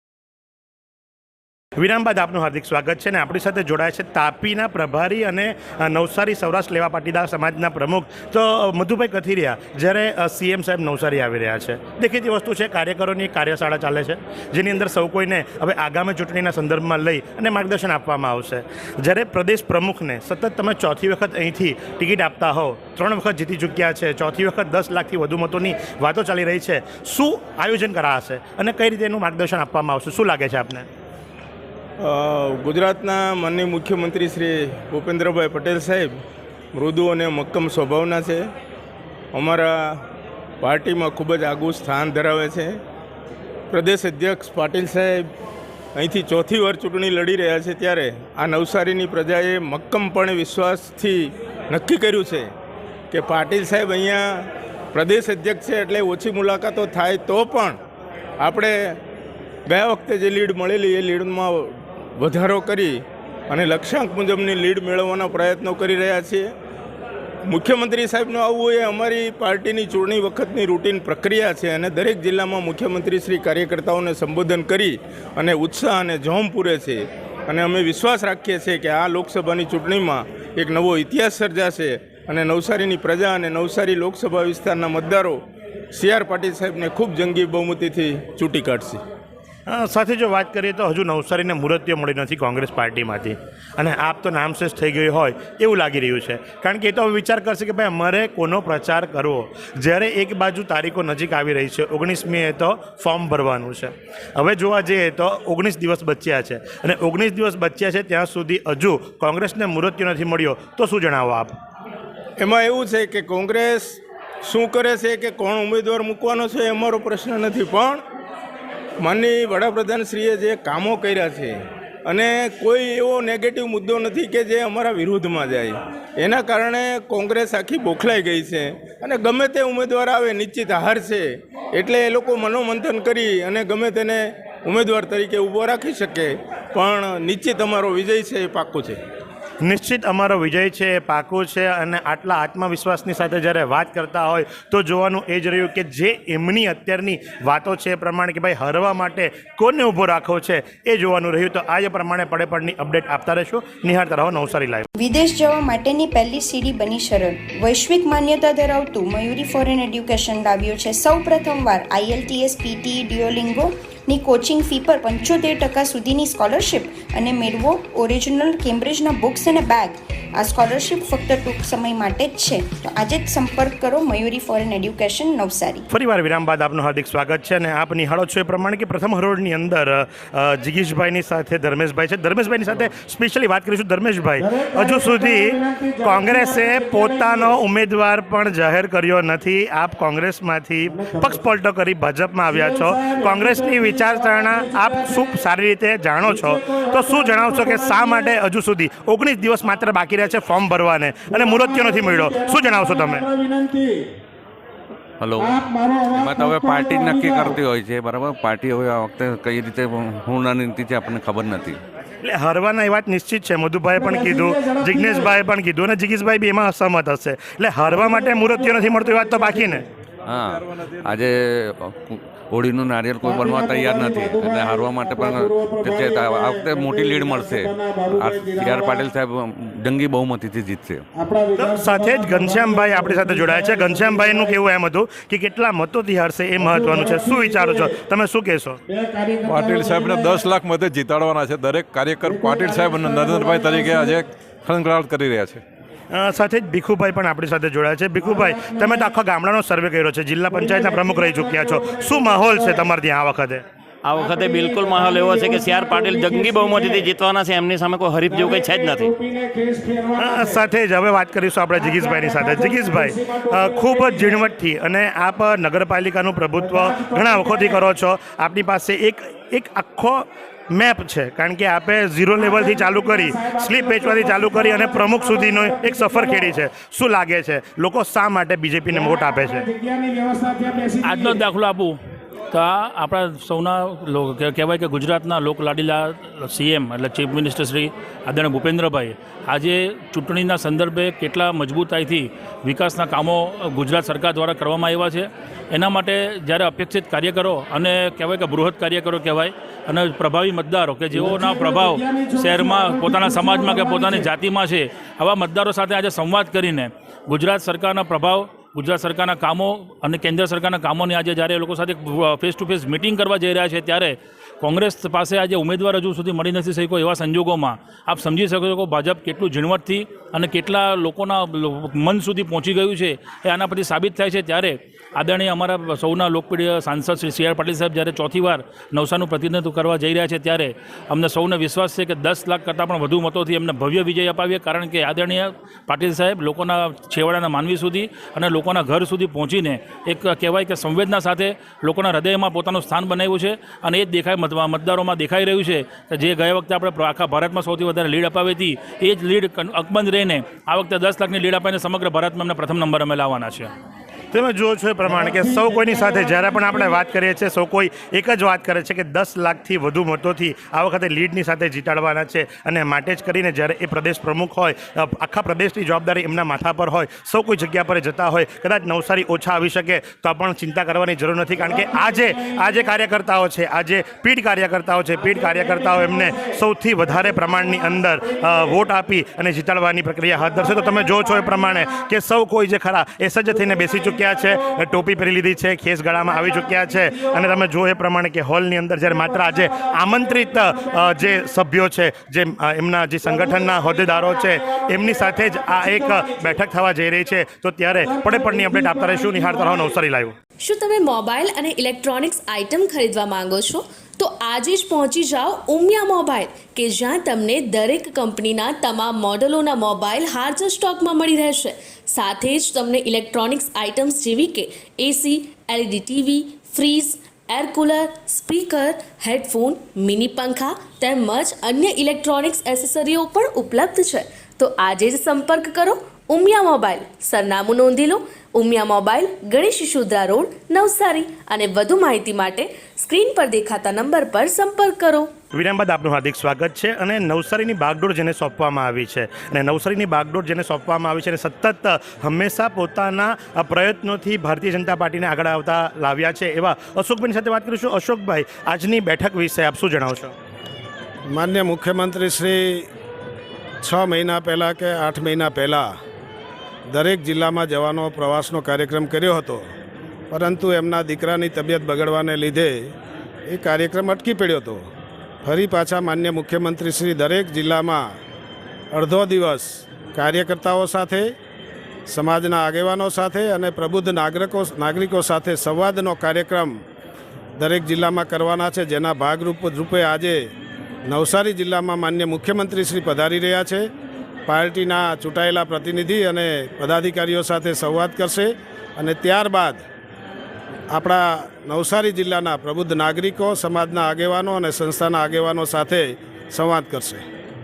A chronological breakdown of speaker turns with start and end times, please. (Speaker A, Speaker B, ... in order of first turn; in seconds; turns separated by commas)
Speaker A: 1.8-30.9, Speaker B: 32.0-36.2, Speaker B: 36.7-38.5, Speaker B: 39.3-40.0, Speaker B: 40.6-42.8, Speaker B: 43.7-45.3, Speaker B: 46.0-52.5, Speaker B: 53.1-57.8, Speaker B: 58.4-59.0, Speaker B: 59.7-66.5, Speaker B: 67.5-85.4, Speaker B: 85.9-89.0, Speaker A: 89.7-111.5, Speaker B: 112.4-118.0, Speaker B: 119.0-139.0, Speaker A: 139.6-154.8, Speaker C: 155.0-175.8, Speaker A: 175.9-203.3, Speaker D: 184.4-187.6, Speaker D: 190.8-191.4, Speaker D: 192.5-195.4, Speaker D: 196.2-198.4, Speaker D: 201.3-204.0, Speaker E: 205.2-205.6, Speaker D: 205.4-207.6, Speaker E: 206.1-211.8, Speaker A: 212.2-219.8, Speaker D: 213.9-215.4, Speaker D: 217.8-219.8, Speaker E: 220.2-231.0, Speaker D: 223.2-229.1, Speaker D: 231.1-234.6, Speaker A: 231.6-238.8, Speaker D: 236.6-237.9, Speaker D: 238.9-240.5, Speaker F: 239.5-245.6, Speaker E: 239.5-240.6, Speaker E: 242.2-244.1, Speaker D: 242.2-244.2, Speaker A: 246.1-253.6, Speaker D: 248.2-249.2, Speaker D: 250.5-252.9, Speaker G: 254.0-259.1, Speaker D: 254.1-257.1, Speaker D: 258.2-260.6, Speaker A: 260.1-279.7, Speaker D: 261.8-264.5, Speaker D: 266.6-267.8, Speaker D: 272.4-276.5, Speaker D: 278.9-281.4, Speaker H: 281.0-282.0, Speaker H: 282.5-353.7, Speaker D: 301.1-304.3, Speaker A: 354.3-400.3, Speaker D: 355.0-357.1, Speaker D: 371.5-372.8, Speaker D: 375.2-378.9, Speaker D: 380.3-382.0, Speaker D: 383.5-384.8, Speaker D: 386.2-387.6, Speaker D: 389.0-391.5, Speaker D: 393.2-396.6, Speaker D: 397.9-400.0, Speaker I: 400.6-435.3, Speaker A: 435.5-450.3, Speaker D: 451.3-452.9, Speaker D: 453.8-455.9, Speaker D: 456.9-459.7, Speaker D: 460.3-462.9, Speaker D: 463.5-464.9, Speaker D: 465.4-468.0, Speaker D: 468.9-471.3, Speaker D: 472.1-476.8, Speaker D: 477.6-480.5, Speaker D: 481.1-483.9, Speaker D: 484.5-489.8, Speaker D: 490.9-497.2